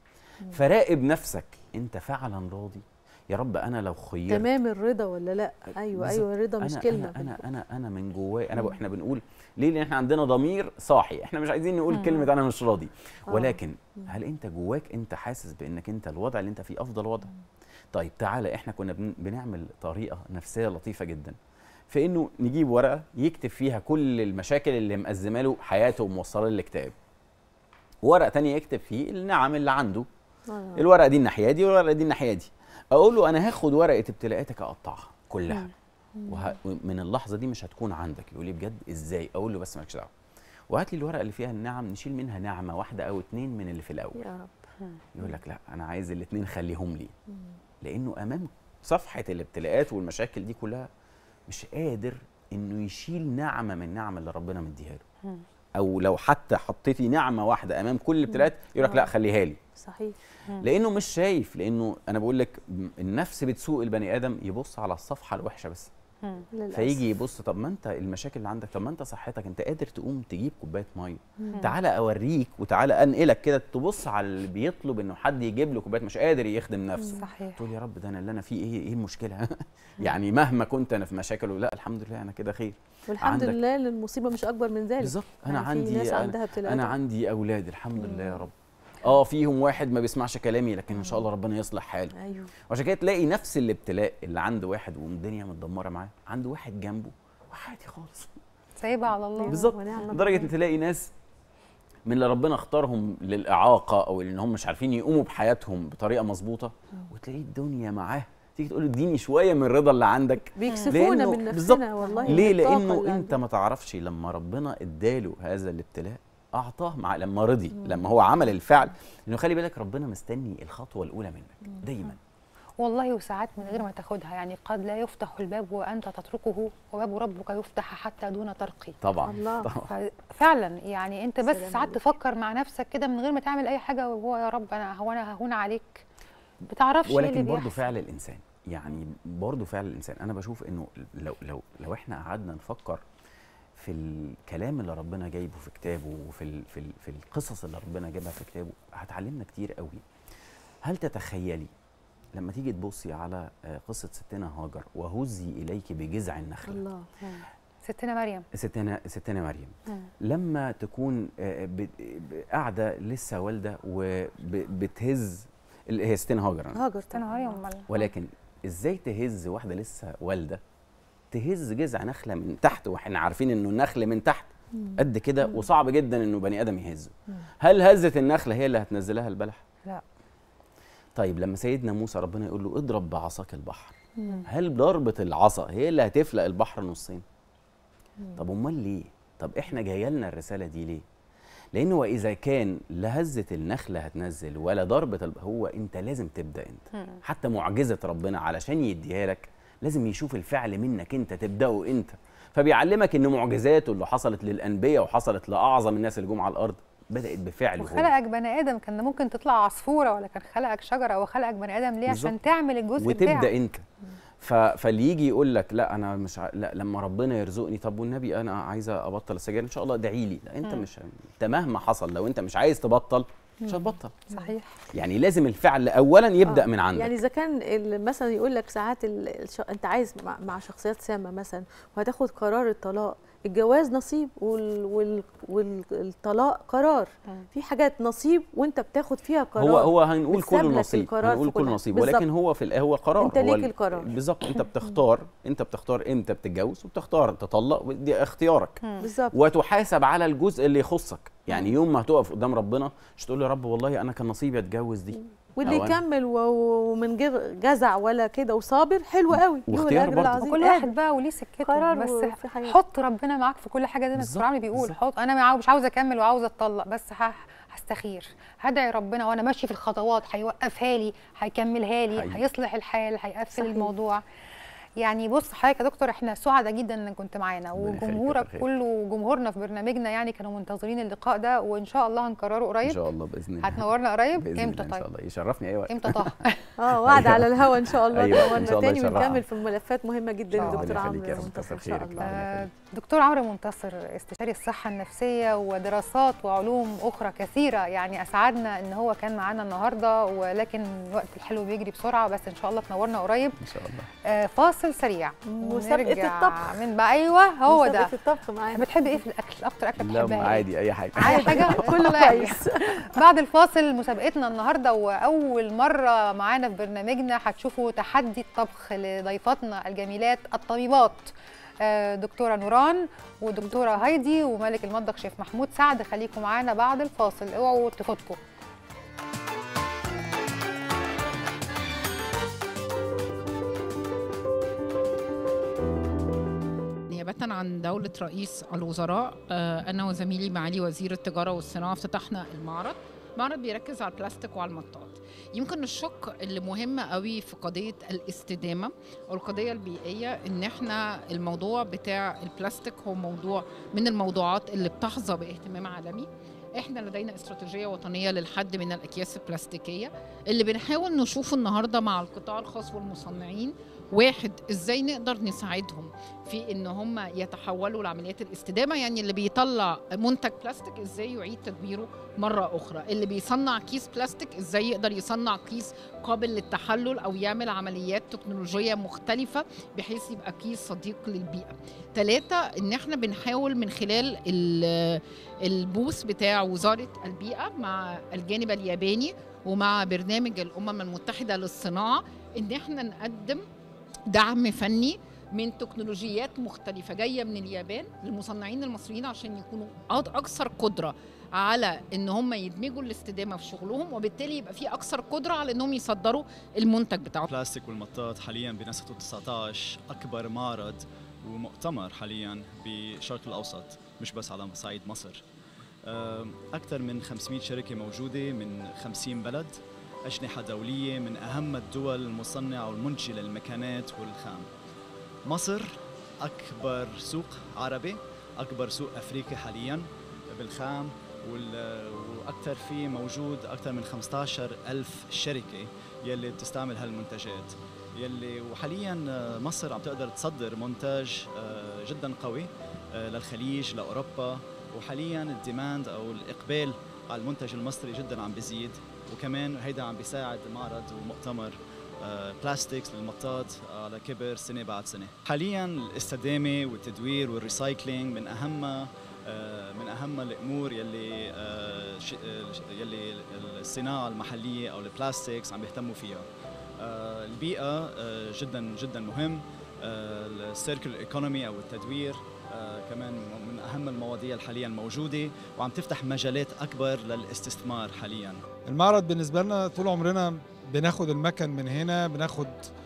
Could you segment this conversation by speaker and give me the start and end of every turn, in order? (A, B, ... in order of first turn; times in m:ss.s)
0:00.5-0:04.5 A
0:04.3-0:07.4 B
0:05.9-0:17.3 A
0:11.9-0:12.3 C
0:13.3-0:14.1 B
0:17.9-0:21.4 A
0:21.9-0:26.9 A
0:28.0-0:30.1 A
0:30.5-0:30.8 B
0:30.8-0:35.7 A
0:36.2-0:36.5 B
0:36.3-0:40.1 A
0:40.7-0:44.3 A
0:44.2-0:44.5 B
0:45.2-0:47.1 A
0:47.8-0:50.9 A
0:51.5-0:55.0 A
0:55.8-0:59.6 A
0:58.3-0:59.1 B
0:59.8-1:00.2 B
1:00.6-1:05.9 A
1:06.5-1:07.0 B
1:06.7-1:23.6 A
1:11.4-1:11.6 B
1:17.2-1:17.6 C
1:23.1-1:26.9 B
1:25.0-1:38.4 A
1:28.0-1:28.4 B
1:32.2-1:32.5 B
1:38.8-1:40.0 C
1:39.4-1:40.5 B
1:39.5-1:41.1 A
1:42.1-2:02.2 A
1:50.6-1:53.4 B
1:50.7-1:50.9 C
1:52.1-1:52.4 C
2:02.8-2:09.0 C
2:09.0-2:09.9 A
2:09.3-2:09.7 B
2:09.9-2:16.0 C
2:11.5-2:12.0 B
2:16.7-2:17.8 C
2:17.1-2:23.0 A
2:23.8-2:30.0 A
2:30.8-2:31.7 A
2:32.4-2:36.8 A
2:36.7-2:37.1 B
2:37.2-2:38.4 C
2:38.5-2:46.8 A
2:46.8-2:47.6 B
2:47.1-2:48.0 C
2:47.9-2:50.6 A
2:51.3-2:59.6 A
2:54.8-2:55.6 B
3:01.2-3:07.2 A
3:04.2-3:04.4 B
3:08.4-3:11.0 A
3:11.7-3:28.1 A
3:17.0-3:17.2 C
3:27.8-3:33.5 C
3:32.1-3:32.4 A
3:33.0-3:33.9 A
3:34.4-3:44.2 A
3:43.6-3:44.5 B
3:44.3-3:44.8 C
3:44.9-3:47.2 A
3:47.0-4:02.3 B
3:59.6-4:16.0 A
4:03.2-4:04.2 B
4:09.0-4:09.4 B
4:15.6-4:20.9 B
4:19.3-4:20.4 A
4:20.2-4:34.2 C
4:21.6-4:22.8 B
4:24.2-4:25.0 A
4:32.1-4:32.4 A
4:33.5-4:33.9 B
4:35.0-4:43.0 C
4:37.7-4:38.7 A
4:42.8-4:46.4 A
4:43.6-4:45.0 C
4:45.9-4:46.6 C
4:46.8-4:52.4 B
4:47.0-4:49.4 A
4:50.5-4:52.7 A
4:50.6-4:51.1 C
4:52.2-5:03.6 C
5:03.6-5:04.1 A
5:04.2-5:08.1 C
5:05.5-5:06.8 B
5:07.7-5:09.2 B
5:08.7-5:28.4 C
5:10.0-5:12.5 A
5:11.2-5:13.2 B
5:37.1-6:33.6 D
6:34.3-6:47.5 D
6:47.5-6:55.4 E
6:56.0-7:04.7 E
7:05.5-7:46.5 E
7:47.0-7:58.6 E
7:58.9-8:02.9 F